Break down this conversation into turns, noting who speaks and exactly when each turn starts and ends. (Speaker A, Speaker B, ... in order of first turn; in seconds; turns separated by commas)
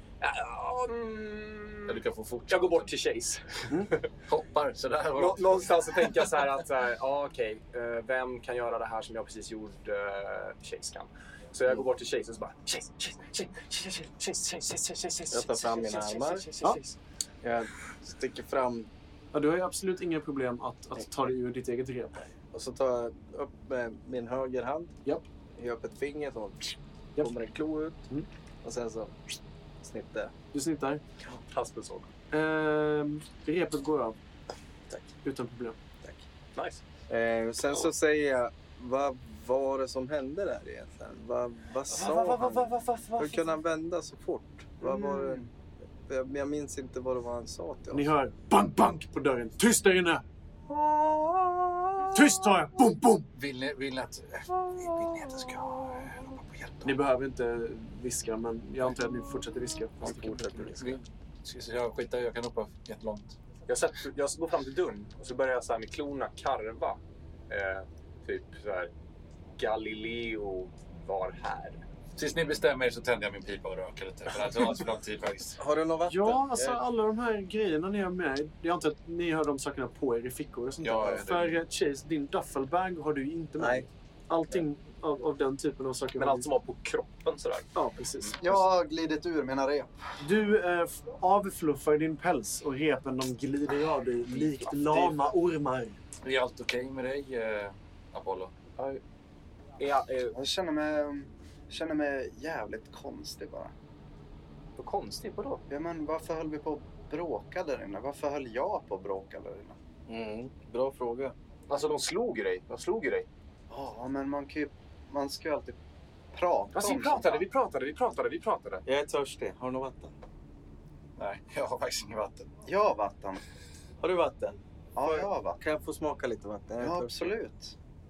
Speaker A: 0.2-4.1, Speaker B: 1.9-2.9, Speaker B: 4.3-6.4, Speaker A: 5.1-17.0, Speaker C: 15.3-16.5, Speaker C: 17.4-18.9, Speaker D: 19.3-22.1, Speaker C: 22.5-25.0, Speaker C: 25.6-28.0, Speaker C: 28.6-30.3, Speaker D: 30.5-31.0, Speaker A: 31.5-32.1, Speaker D: 32.3-34.2, Speaker D: 35.2-35.8, Speaker A: 36.5-36.8, Speaker C: 37.1-48.1, Speaker D: 41.9-43.5, Speaker D: 47.9-50.2, Speaker D: 52.1-53.3, Speaker B: 53.3-57.0, Speaker D: 56.8-61.0, Speaker B: 60.0-63.4, Speaker A: 63.7-68.9, Speaker A: 69.6-71.8, Speaker B: 72.2-75.6, Speaker C: 75.6-76.8, Speaker D: 76.1-86.5, Speaker B: 80.8-81.6, Speaker C: 83.6-83.8, Speaker A: 86.2-88.3, Speaker D: 87.7-88.6, Speaker E: 88.4-89.9, Speaker D: 90.2-96.0, Speaker A: 94.5-95.3, Speaker B: 96.2-99.0, Speaker A: 99.8-100.3, Speaker E: 100.3-103.7, Speaker A: 104.8-105.6, Speaker E: 105.7-109.8, Speaker C: 110.1-111.3, Speaker A: 111.7-113.3, Speaker E: 113.7-115.8, Speaker E: 116.3-117.4, Speaker A: 116.7-118.8, Speaker C: 118.8-120.1, Speaker B: 121.2-122.5, Speaker E: 122.7-123.4, Speaker C: 124.0-127.4, Speaker E: 125.0-125.6, Speaker E: 126.8-127.7